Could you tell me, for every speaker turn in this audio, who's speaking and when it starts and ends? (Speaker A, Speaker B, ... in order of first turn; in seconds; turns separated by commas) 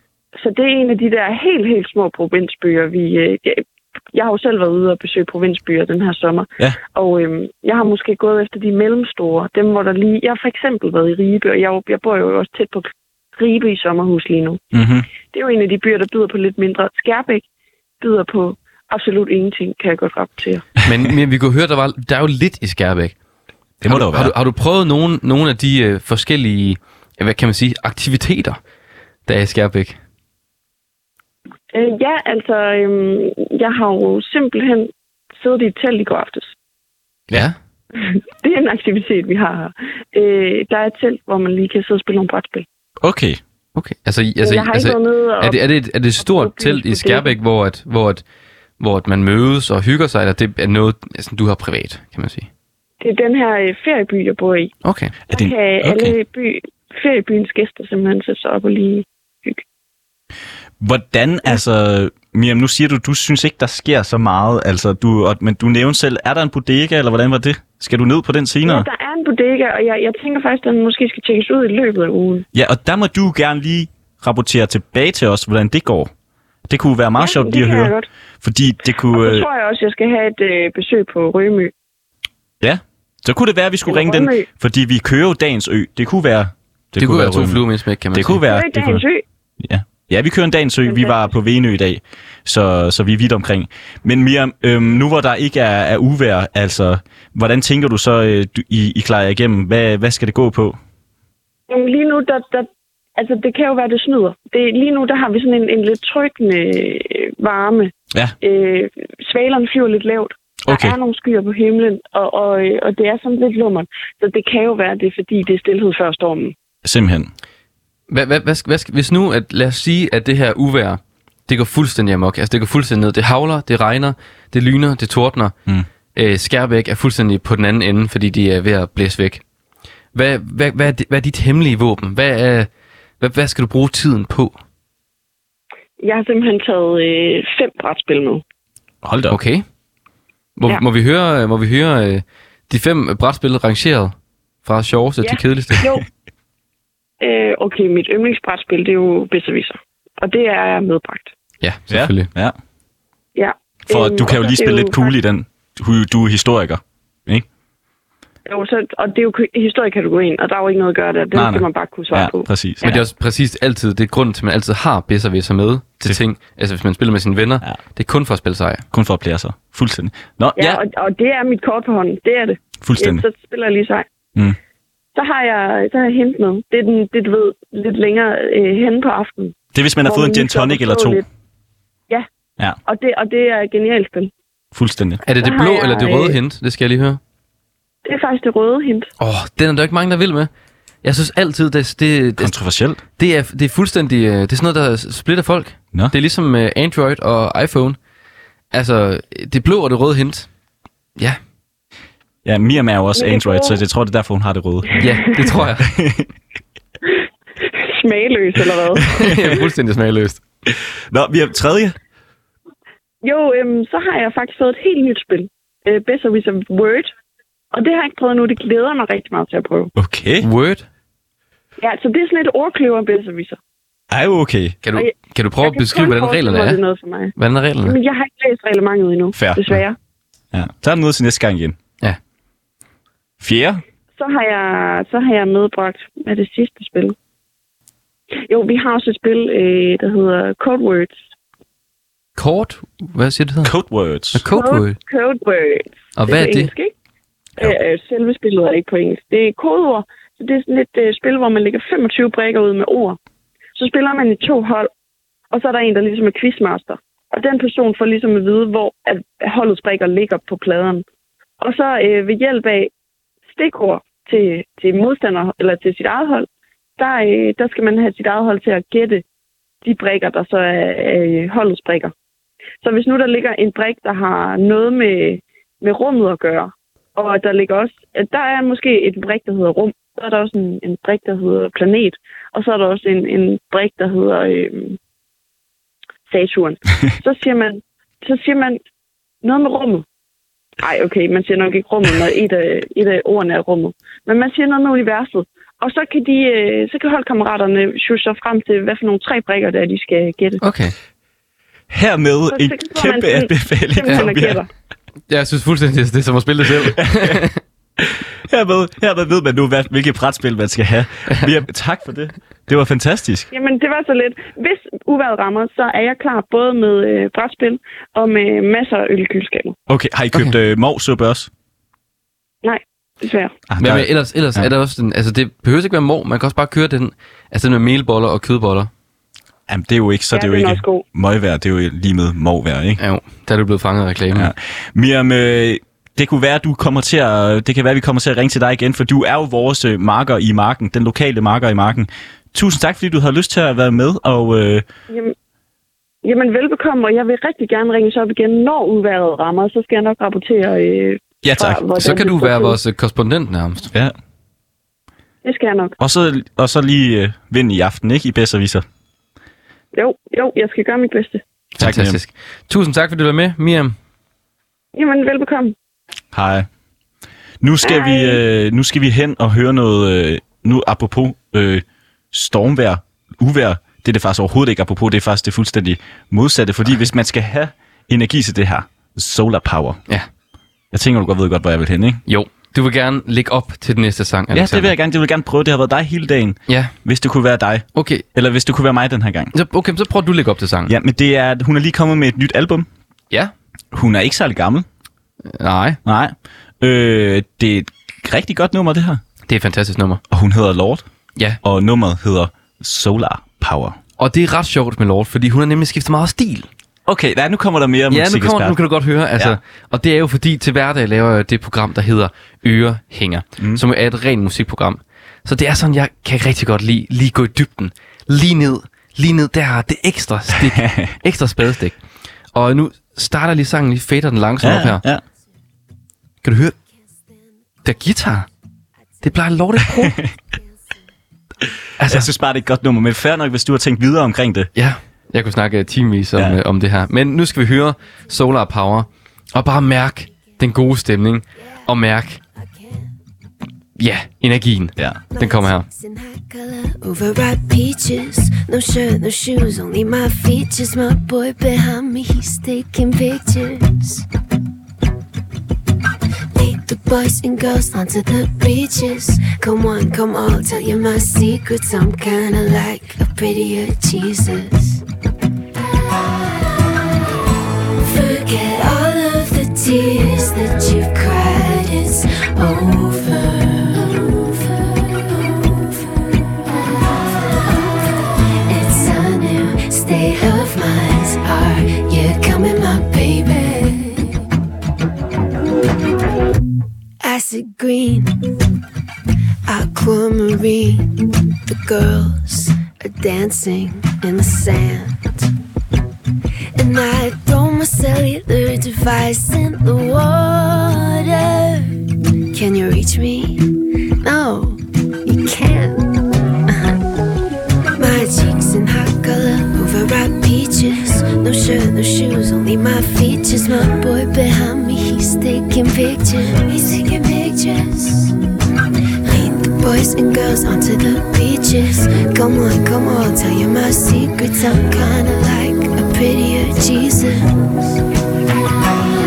Speaker A: 0.4-14.6, Speaker B: 14.7-15.1, Speaker A: 15.2-17.4, Speaker A: 18.0-20.6, Speaker C: 20.9-23.1, Speaker B: 23.8-24.3, Speaker C: 23.9-28.6, Speaker C: 29.3-30.0, Speaker A: 31.7-36.5, Speaker A: 38.0-42.7, Speaker B: 43.0-43.4, Speaker C: 43.8-48.2, Speaker A: 44.4-45.6, Speaker A: 46.2-47.3, Speaker C: 48.8-52.5, Speaker A: 53.0-54.7, Speaker C: 54.8-55.2, Speaker B: 55.3-56.1, Speaker A: 55.3-59.6, Speaker B: 60.8-68.9, Speaker A: 68.7-72.5, Speaker B: 72.5-76.1, Speaker B: 76.7-79.5, Speaker A: 77.2-78.1, Speaker A: 79.1-81.7, Speaker B: 82.6-87.6, Speaker A: 83.9-84.5, Speaker C: 87.0-88.4, Speaker B: 88.1-89.0, Speaker A: 88.5-89.2, Speaker B: 89.6-100.8, Speaker A: 90.9-91.2, Speaker A: 101.7-116.5, Speaker B: 110.7-111.0, Speaker B: 116.8-117.3, Speaker C: 118.1-125.5, Speaker C: 126.1-129.4, Speaker C: 130.1-132.7, Speaker C: 133.2-134.6, Speaker A: 136.0-138.4, Speaker B: 139.0-139.4, Speaker C: 139.3-139.7, Speaker C: 140.6-145.9, Speaker A: 145.2-146.0, Speaker A: 147.2-151.3, Speaker C: 151.6-152.3, Speaker B: 151.9-152.6, Speaker A: 153.3-155.1, Speaker B: 153.9-157.4, Speaker A: 158.5-163.0, Speaker B: 161.3-163.0, Speaker C: 162.8-168.8, Speaker B: 168.9-170.8, Speaker A: 170.6-174.1, Speaker B: 172.8-173.2, Speaker A: 175.2-181.2, Speaker B: 179.7-181.2, Speaker A: 182.9-184.3, Speaker B: 184.7-185.2, Speaker C: 185.2-187.2, Speaker A: 185.4-186.4, Speaker A: 188.1-189.1, Speaker C: 189.2-190.5, Speaker C: 191.0-192.5, Speaker B: 192.4-193.0, Speaker C: 193.2-198.0, Speaker C: 198.7-200.5, Speaker B: 202.4-205.1, Speaker A: 203.2-203.8, Speaker C: 205.0-205.9, Speaker B: 205.8-206.3, Speaker A: 207.1-209.1, Speaker C: 209.1-210.4, Speaker B: 209.2-209.6, Speaker B: 211.1-212.0, Speaker A: 213.2-217.1, Speaker A: 217.7-219.9, Speaker B: 220.0-220.5, Speaker C: 220.4-220.9, Speaker A: 221.8-223.6, Speaker B: 224.1-224.8, Speaker C: 224.8-226.8, Speaker A: 225.6-230.0, Speaker C: 227.4-228.0, Speaker B: 229.3-229.8, Speaker B: 230.5-231.8, Speaker B: 233.4-233.8, Speaker A: 234.2-237.2, Speaker A: 238.5-241.2, Speaker C: 242.4-243.7, Speaker B: 243.6-244.4, Speaker C: 244.3-245.0, Speaker A: 244.5-246.9, Speaker C: 246.2-246.7, Speaker A: 247.6-253.2, Speaker A: 253.8-254.9, Speaker A: 255.5-261.1, Speaker A: 261.6-262.9, Speaker A: 263.5-269.2, Speaker A: 269.8-272.1, Speaker A: 272.8-285.0, Speaker A: 286.3-288.8, Speaker A: 289.4-290.1, Speaker A: 290.8-300.6, Speaker C: 300.6-300.9, Speaker B: 301.9-304.6, Speaker A: 302.5-304.7, Speaker C: 305.3-307.6, Speaker B: 307.0-307.4, Speaker B: 308.5-313.5, Speaker A: 313.5-319.8, Speaker B: 319.9-321.5, Speaker A: 322.6-323.5, Speaker B: 323.7-324.7, Speaker C: 323.8-328.9, Speaker B: 329.7-333.0, Speaker A: 330.3-331.0, Speaker C: 333.0-334.5, Speaker B: 334.3-344.9, Speaker A: 345.1-345.4, Speaker A: 346.2-352.8, Speaker B: 351.4-351.8, Speaker C: 351.9-353.9, Speaker A: 355.4-355.9, Speaker B: 356.0-358.8, Speaker A: 359.9-361.4, Speaker C: 361.8-363.9, Speaker B: 361.8-362.2, Speaker A: 364.9-365.8, Speaker B: 366.3-366.7, Speaker B: 367.6-380.0, Speaker A: 367.8-368.4, Speaker B: 380.9-382.2, Speaker C: 382.3-384.9, Speaker B: 384.5-389.5, Speaker C: 386.7-386.9, Speaker C: 387.9-388.2, Speaker C: 389.5-390.9, Speaker B: 390.9-392.9, Speaker B: 393.9-394.9, Speaker C: 395.4-396.0, Speaker B: 396.1-399.2, Speaker C: 399.5-400.2, Speaker B: 400.3-401.1, Speaker B: 401.6-404.0, Speaker C: 404.2-406.7, Speaker B: 407.1-408.8, Speaker C: 408.1-422.0, Speaker B: 420.8-421.1, Speaker C: 422.5-425.0, Speaker B: 424.6-425.2, Speaker C: 426.4-426.8, Speaker C: 427.8-428.5, Speaker C: 429.2-430.2, Speaker C: 432.0-432.3, Speaker B: 432.1-434.7, Speaker C: 434.8-442.4, Speaker D: 442.6-443.1, Speaker C: 444.0-445.9, Speaker D: 445.3-454.2, Speaker D: 456.5-465.0, Speaker D: 468.0-484.4, Speaker D: 487.2-488.3, Speaker D: 489.7-491.1, Speaker D: 491.7-495.4, Speaker D: 496.8-506.1, Speaker D: 506.7-507.0, Speaker D: 507.9-518.4, Speaker D: 519.2-528.0